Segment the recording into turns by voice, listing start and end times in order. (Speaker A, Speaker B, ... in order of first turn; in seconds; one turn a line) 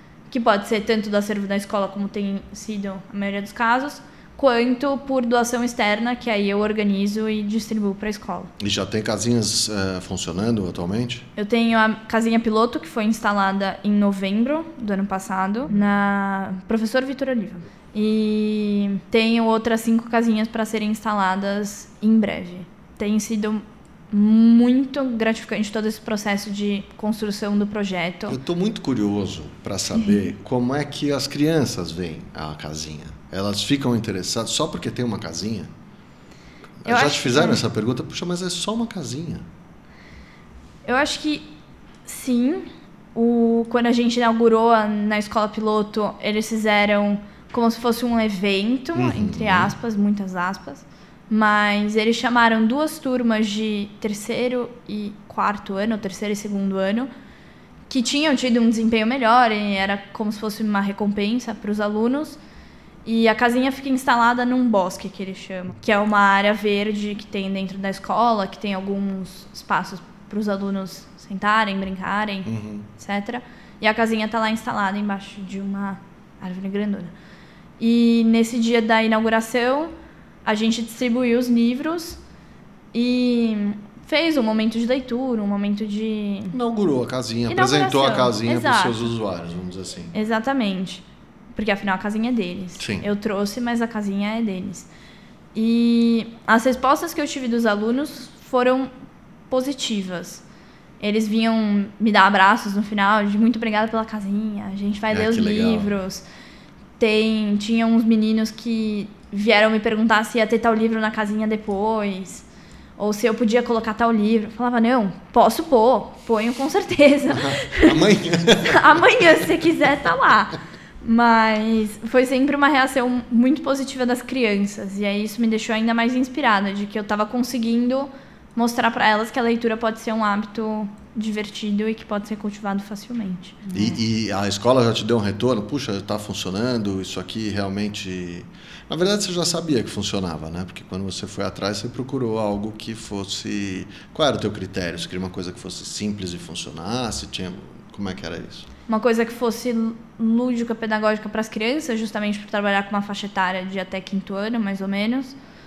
Speaker A: 0.3-8.5
Speaker B: 8.6-11.3
Speaker A: 11.4-28.4
Speaker B: 28.3-35.7
Speaker A: 30.0-30.3
Speaker B: 36.8-39.5
Speaker A: 36.9-37.6
Speaker A: 40.9-41.5
Speaker A: 42.1-57.1
Speaker B: 49.0-49.7
Speaker A: 57.9-62.4
Speaker A: 63.0-77.1
Speaker B: 72.5-72.9
Speaker A: 77.8-79.9
Speaker A: 80.5-82.2
Speaker A: 82.9-86.5
Speaker B: 86.5-90.1
Speaker A: 87.5-89.1
Speaker A: 90.1-94.9
Speaker B: 92.8-93.1
Speaker A: 95.5-98.9
Speaker A: 99.5-100.4
Speaker A: 101.0-106.2
Speaker B: 105.1-106.0
Speaker A: 107.0-112.5
Speaker A: 113.0-118.0
Speaker B: 117.3-119.5
Speaker A: 118.6-134.0
Speaker B: 133.7-148.7
Speaker A: 148.9-155.4